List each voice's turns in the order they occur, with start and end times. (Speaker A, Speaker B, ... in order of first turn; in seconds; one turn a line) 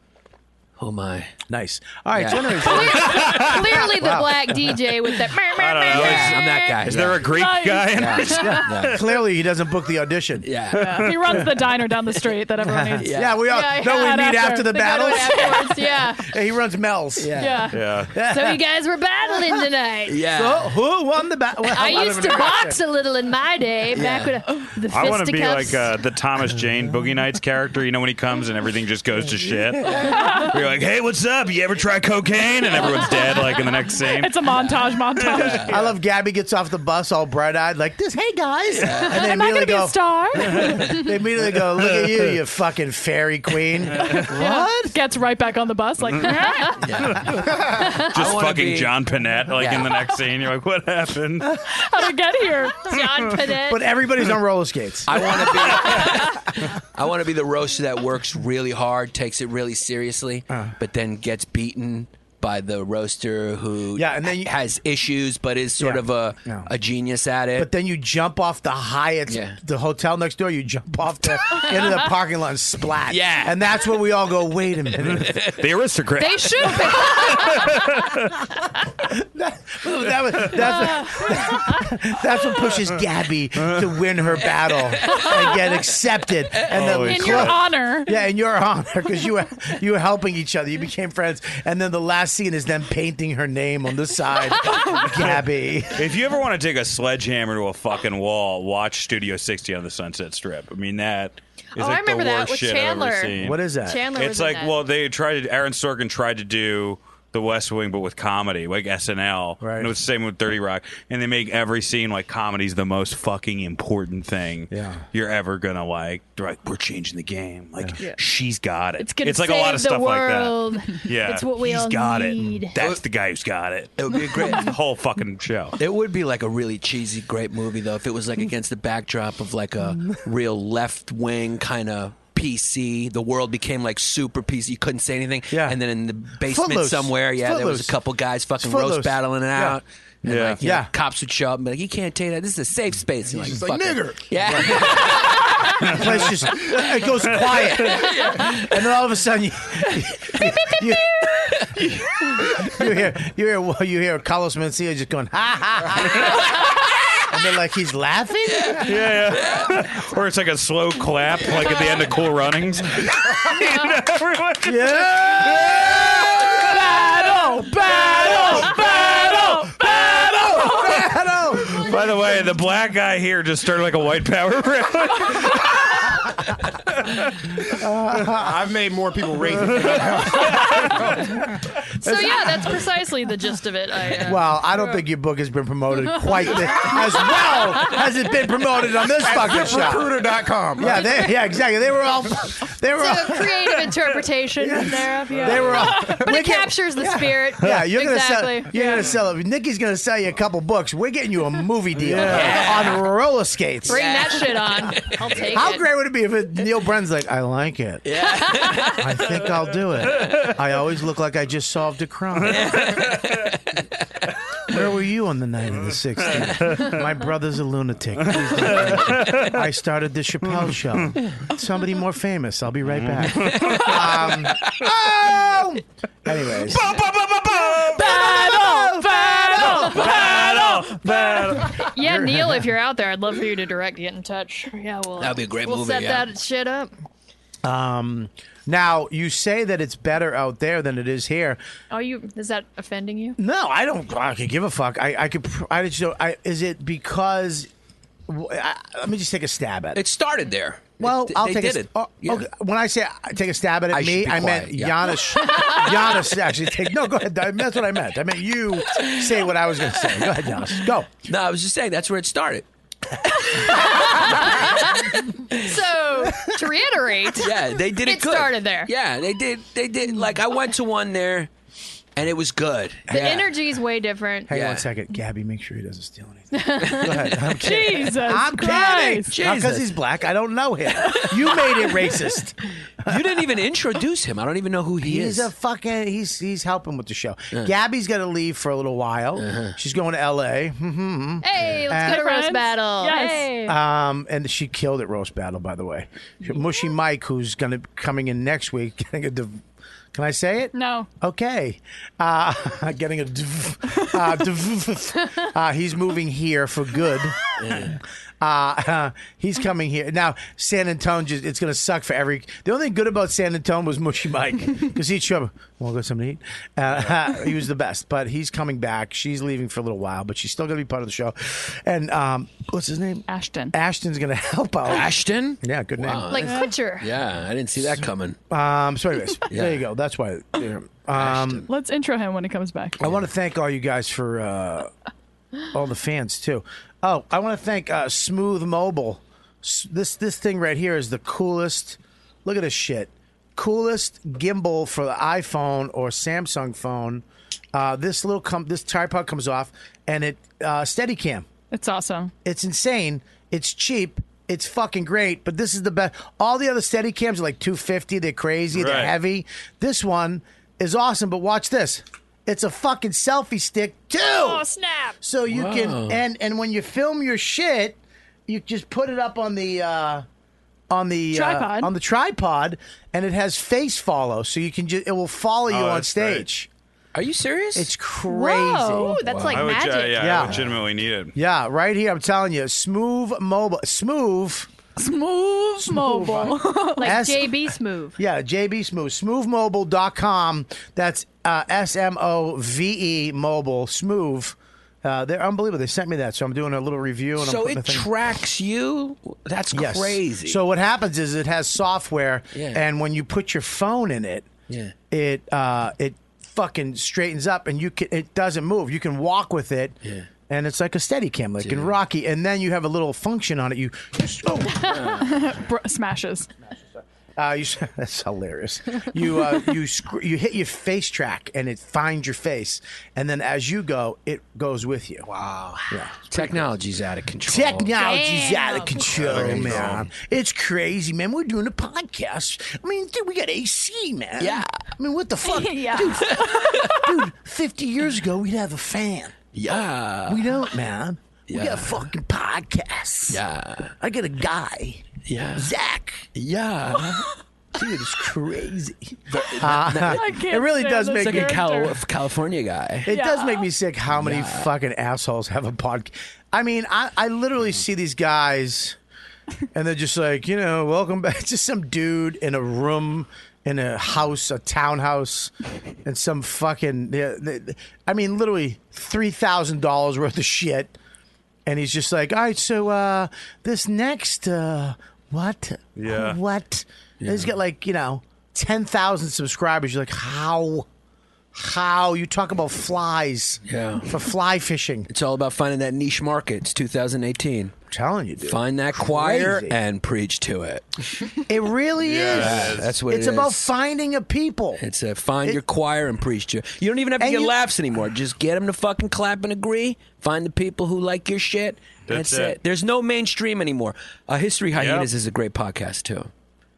Speaker A: 0.8-1.4
Speaker B: 1.5-4.7
Speaker A: 2.1-2.7
Speaker C: 2.6-6.8
Speaker D: 3.1-3.6
Speaker D: 5.5-9.0
Speaker A: 5.9-7.3
Speaker E: 7.3-8.3
Speaker A: 7.9-9.0
Speaker B: 8.3-10.5
Speaker A: 10.4-11.3
Speaker E: 10.7-13.1
Speaker D: 10.8-11.6
Speaker B: 12.6-17.3
Speaker A: 13.0-13.4
Speaker C: 13.5-16.2
Speaker E: 13.8-15.6
Speaker A: 17.2-17.7
Speaker E: 17.4-17.8
Speaker D: 17.7-18.1
Speaker B: 18.1-18.6
Speaker C: 18.2-20.2
Speaker A: 20.1-20.7
Speaker B: 20.3-22.8
Speaker C: 21.7-25.9
Speaker A: 23.9-24.3
Speaker D: 24.9-34.5
Speaker E: 30.0-30.5
Speaker E: 34.1-35.7
Speaker A: 34.5-35.8
Speaker D: 35.1-35.8
Speaker B: 35.7-45.0
Speaker A: 38.7-39.4
Speaker E: 39.2-40.9
Speaker E: 44.1-46.9
Speaker A: 46.8-49.0
Speaker D: 47.2-51.6
Speaker C: 47.8-48.1
Speaker A: 49.5-49.9
Speaker E: 51.7-52.9
Speaker C: 52.8-53.9
Speaker B: 53.6-56.1
Speaker A: 55.1-67.7
Speaker B: 60.5-60.7
Speaker B: 63.9-64.5
Speaker B: 65.8-66.7
Speaker B: 67.6-75.4
Speaker A: 69.3-69.6
Speaker A: 73.1-73.6
Speaker D: 75.0-78.4
Speaker A: 75.2-75.6
Speaker C: 76.2-77.7
Speaker B: 79.0-96.1
Speaker A: 84.9-85.3
Speaker A: 86.5-86.8
Speaker D: 86.7-87.6
Speaker E: 86.9-88.1
Speaker D: 95.9-103.6
Speaker C: 101.8-104.8
Speaker B: 103.4-104.0
Speaker D: 104.1-125.7
Speaker B: 109.6-110.0
Speaker B: 114.7-115.0
Speaker C: 119.0-122.8
Speaker A: 122.8-123.0
Speaker A: 124.0-124.7
Speaker A: 125.8-146.1
Speaker B: 129.9-130.2
Speaker B: 135.5-135.8
Speaker B: 136.4-138.0
Speaker B: 138.6-139.8
Speaker D: 140.2-140.6
Speaker B: 140.6-140.9
Speaker F: 143.4-144.2
Speaker B: 143.4-156.8
Speaker A: 147.7-148.7
Speaker B: 157.3-159.1
Speaker A: 158.5-159.7
Speaker D: 158.8-165.8
Speaker B: 164.6-171.9
Speaker E: 168.5-169.7
Speaker D: 169.8-170.9
Speaker D: 171.6-177.6
Speaker B: 177.7-178.6
Speaker F: 178.3-181.3
Speaker D: 179.8-181.0
Speaker B: 180.5-181.0
Speaker C: 182.0-184.5
Speaker B: 182.0-182.6
Speaker B: 184.2-190.2
Speaker F: 189.1-191.1
Speaker B: 190.8-193.8
Speaker C: 190.9-191.3
Speaker C: 193.0-199.1
Speaker B: 194.6-204.0
Speaker D: 202.0-202.7
Speaker A: 202.2-203.1
Speaker C: 202.3-202.6
Speaker C: 203.8-205.8
Speaker A: 203.9-205.1
Speaker B: 205.5-208.1
Speaker A: 208.1-209.1
Speaker C: 208.2-209.0
Speaker B: 208.9-212.9
Speaker A: 212.4-213.8
Speaker D: 212.5-213.4
Speaker B: 214.7-227.1
Speaker D: 216.2-217.0
Speaker D: 218.3-219.6
Speaker D: 220.5-221.1
Speaker D: 222.9-224.2
Speaker A: 223.4-224.8
Speaker D: 226.7-228.2
Speaker B: 227.7-230.4
Speaker E: 228.2-230.9
Speaker C: 229.4-230.3
Speaker D: 229.6-231.8
Speaker C: 231.6-236.9
Speaker B: 232.0-232.7
Speaker A: 235.2-236.3
Speaker B: 237.6-241.6
Speaker C: 241.9-243.4
Speaker B: 243.4-247.7
Speaker B: 248.3-250.0
Speaker A: 249.9-252.4
Speaker B: 251.0-261.1
Speaker A: 253.9-255.1
Speaker A: 261.3-262.6
Speaker C: 263.6-268.9
Speaker A: 263.6-264.5
Speaker A: 267.4-271.5
Speaker A: 272.1-273.5
Speaker C: 273.1-274.5
Speaker B: 274.5-283.4
Speaker A: 274.5-274.9
Speaker C: 276.5-277.1
Speaker A: 276.8-277.3
Speaker E: 277.6-279.3
Speaker A: 279.3-279.9
Speaker A: 283.0-285.5
Speaker B: 285.0-292.2
Speaker A: 289.4-289.7
Speaker C: 291.4-293.7
Speaker E: 291.9-293.6
Speaker B: 293.6-299.6
Speaker B: 300.1-326.5
Speaker E: 300.7-301.1
Speaker A: 307.6-308.0
Speaker E: 323.3-323.7
Speaker A: 324.9-328.4
Speaker C: 326.3-327.1
Speaker B: 328.5-331.6
Speaker A: 329.5-329.8
Speaker A: 331.1-331.7
Speaker E: 331.7-333.0
Speaker B: 333.0-334.9
Speaker B: 335.7-351.5
Speaker E: 351.7-352.3
Speaker B: 352.4-364.6
Speaker D: 358.7-359.1
Speaker C: 364.2-365.1
Speaker B: 365.2-370.2
Speaker A: 365.5-366.2
Speaker B: 370.9-376.7
Speaker E: 371.3-371.9
Speaker D: 375.7-376.4
Speaker A: 377.1-377.9
Speaker B: 377.7-379.2
Speaker C: 378.3-380.5
Speaker A: 379.2-379.8
Speaker D: 379.5-381.3
Speaker B: 380.1-380.8
Speaker B: 381.3-384.7
Speaker E: 385.0-387.1
Speaker B: 385.8-398.1
Speaker C: 387.0-388.2
Speaker A: 397.4-400.6
Speaker B: 399.7-404.5
Speaker A: 402.5-402.8
Speaker A: 404.7-404.9
Speaker B: 405.1-410.0
Speaker B: 410.5-415.0
Speaker A: 411.6-411.9
Speaker E: 414.8-416.5
Speaker A: 414.9-415.3
Speaker B: 417.4-425.3
Speaker A: 425.3-427.9
Speaker B: 425.9-426.6
Speaker B: 427.4-439.3
Speaker C: 428.0-429.1
Speaker D: 429.1-430.0
Speaker A: 429.2-430.1
Speaker A: 434.4-434.7
Speaker E: 435.4-437.2
Speaker A: 436.2-436.9
Speaker A: 439.5-440.6
Speaker B: 440.3-443.4
Speaker A: 441.5-442.1
Speaker A: 443.3-443.9
Speaker B: 444.0-445.0
Speaker A: 445.2-445.7
Speaker B: 445.6-446.3
Speaker A: 446.3-447.3
Speaker B: 447.7-451.6
Speaker A: 449.3-450.4
Speaker E: 450.1-452.0
Speaker A: 451.1-453.1
Speaker B: 453.1-459.0
Speaker E: 453.1-453.7
Speaker A: 454.1-454.7
Speaker B: 459.7-465.5
Speaker B: 466.0-470.9
Speaker B: 471.6-480.9
Speaker D: 476.0-476.4
Speaker A: 477.2-477.5
Speaker B: 481.5-485.1
Speaker A: 483.7-484.1
Speaker A: 485.1-487.7
Speaker B: 487.9-489.8
Speaker A: 488.4-491.2
Speaker B: 491.5-494.8
Speaker D: 492.0-492.9
Speaker A: 492.3-493.7
Speaker A: 494.8-506.3
Speaker B: 497.2-497.6
Speaker D: 502.1-502.6
Speaker D: 504.8-505.1